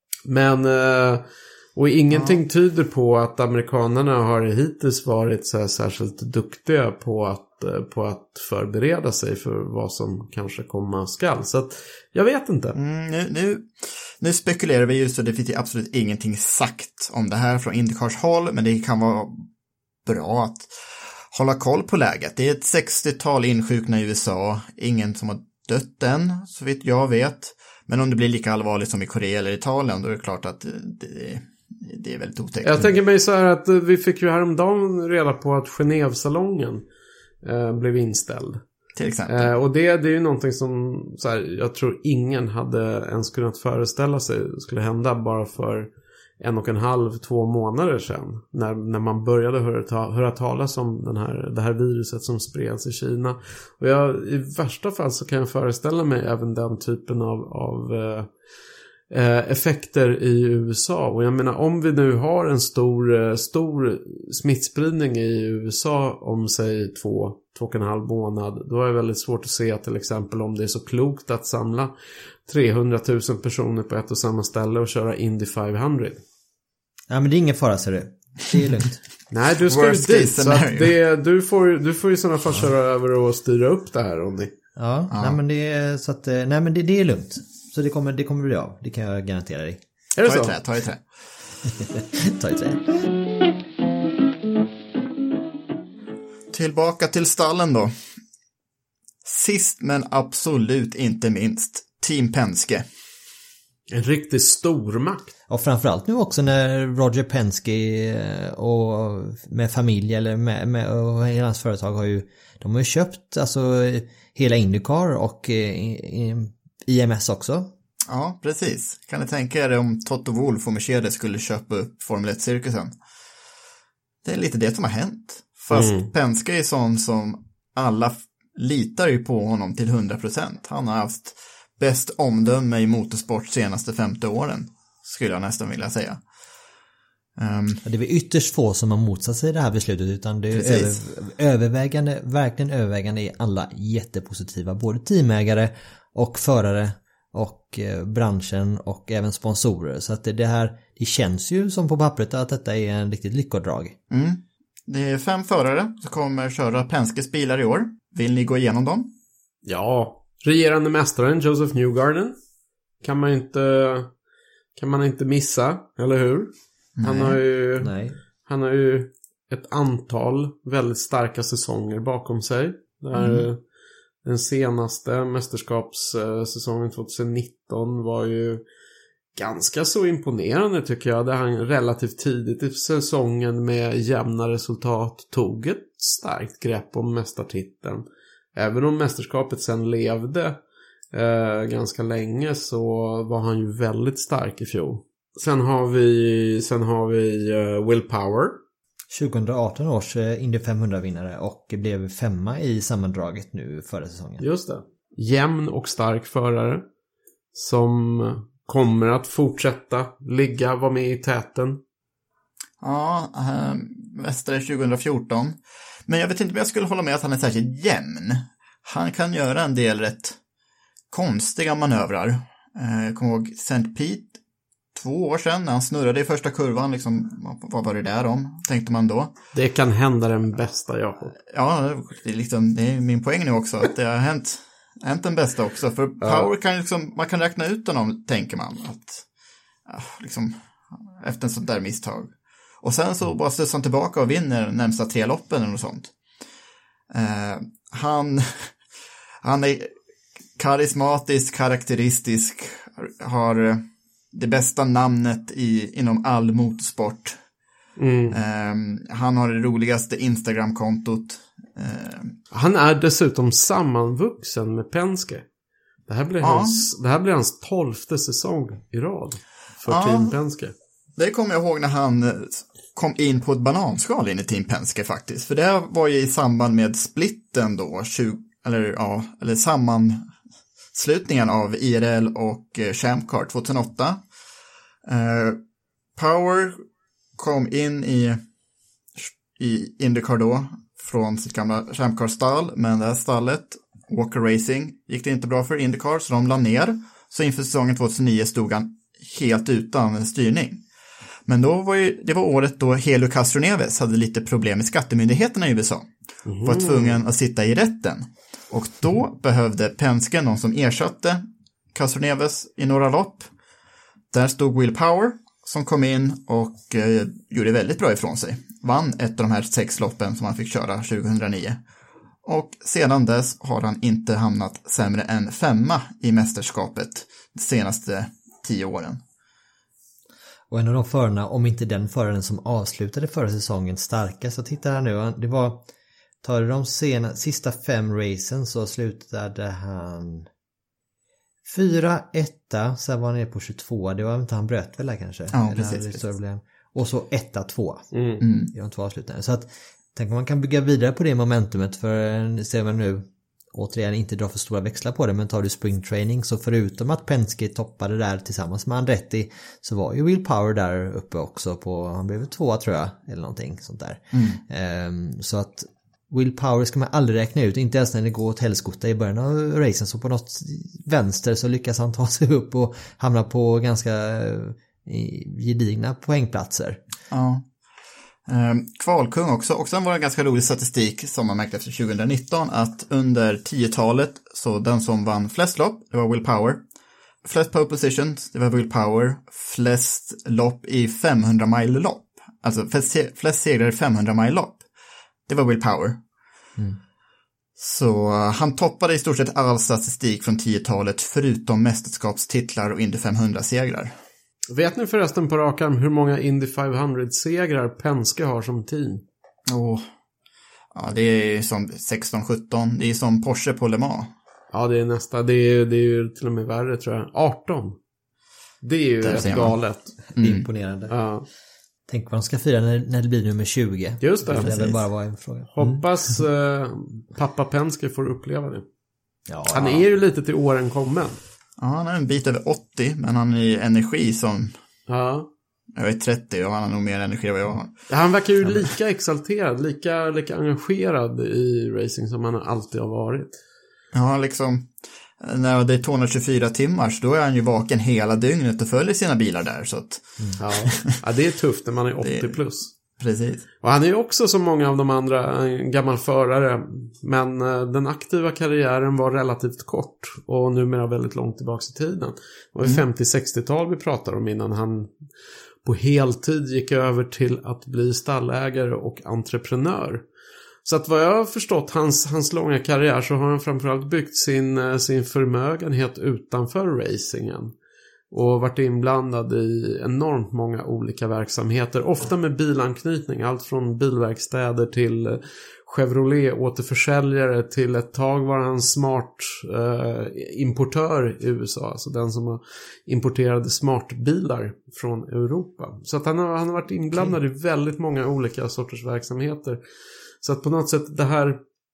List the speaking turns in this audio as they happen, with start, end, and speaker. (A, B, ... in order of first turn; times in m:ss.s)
0:00.3-0:12.8 A
0:02.1-0:02.4 B
0:12.8-0:19.4 B
0:20.0-0:20.7 B
0:21.3-0:32.9 B
0:32.6-0:36.8 A
0:37.4-0:38.6 A
0:39.0-0:39.5 B
0:39.3-0:58.3 A
0:59.1-1:11.9 A
1:12.5-1:16.2 A
1:17.1-1:19.0 C
1:19.3-1:24.5 A
1:19.7-1:21.0 B
1:24.8-1:29.8 C
1:25.1-1:25.4 B
1:30.2-1:30.6 A
1:30.2-1:31.0 B
1:31.6-1:32.9 C
1:36.5-1:37.9 B
1:39.2-1:42.9 B
1:43.9-1:45.3 A
1:45.5-1:57.7 C
1:58.1-2:03.0 B
2:04.2-2:16.2 B
2:05.7-2:06.1 A
2:17.4-2:17.8 B
2:17.8-2:34.0 C
2:20.5-2:21.0 B
2:34.1-2:39.1 B
2:39.6-2:42.4 A
2:43.0-2:44.1 A
2:44.8-2:47.9 A
2:47.0-2:47.4 B
2:47.8-2:48.2 C
2:48.5-2:53.6 A
2:53.1-2:53.5 B
2:54.2-2:58.6 A
2:59.4-3:10.6 A
3:11.1-3:18.6 A
3:19.1-3:24.4 C
3:24.4-3:26.8 A
3:27.5-3:31.8 A
3:32.8-3:40.4 B
3:41.1-3:44.4 B
3:44.9-3:49.3 B
3:49.5-3:51.4 A
3:51.5-3:59.2 B
3:56.2-3:56.5 A
3:59.9-4:06.1 B
4:07.1-4:08.8 B
4:09.4-4:09.9 B
4:10.6-4:17.4 B
4:18.0-4:18.4 A
4:18.3-4:22.4 B
4:22.5-4:25.5 A
4:26.1-4:30.7 A
4:26.4-4:26.8 B
4:29.9-4:30.4 B
4:31.2-4:40.2 B
4:40.9-4:44.2 B
4:45.1-4:45.6 B
4:46.2-4:46.8 B
4:47.4-4:48.4 B
4:49.2-5:00.8 B
5:01.5-5:06.1 B
5:06.5-5:07.2 A
5:06.6-5:13.5 B
5:14.3-5:21.8 B
5:22.4-5:29.2 B
5:30.7-5:35.9 C
5:36.4-5:40.5 C
5:41.6-5:48.1 C
5:45.5-5:46.2 B
5:48.1-5:48.4 A
5:48.4-5:48.7 B
5:48.7-6:17.0 C
6:04.3-6:04.6 B
6:17.3-6:17.6 B
6:18.5-6:26.8 B
6:27.4-6:34.8 B
6:35.5-6:36.2 B
6:37.8-6:44.1 B
6:44.7-6:49.2 A
6:49.7-6:50.1 B
6:50.9-6:54.3 B
6:54.7-6:58.0 A
6:58.8-7:00.1 A
6:59.2-6:59.8 B
7:00.4-7:00.7 B
7:00.4-7:01.1 C
7:01.1-7:01.5 A
7:02.1-7:06.0 C
7:04.2-7:04.7 A
7:04.5-7:05.0 B
7:05.7-7:08.8 A
7:09.5-7:10.0 C
7:09.7-7:11.4 A
7:11.8-7:14.7 B
7:15.1-7:15.5 A
7:16.0-7:18.0 B
7:18.1-7:23.6 A
7:24.1-7:24.9 B
7:25.4-7:30.4 B
7:30.6-7:32.9 A
7:32.2-7:32.6 B
7:33.2-7:33.7 B
7:33.8-7:45.2 A
7:45.8-7:50.2 A
7:50.8-7:57.7 A
7:58.3-8:19.8 A
8:20.4-8:21.6 A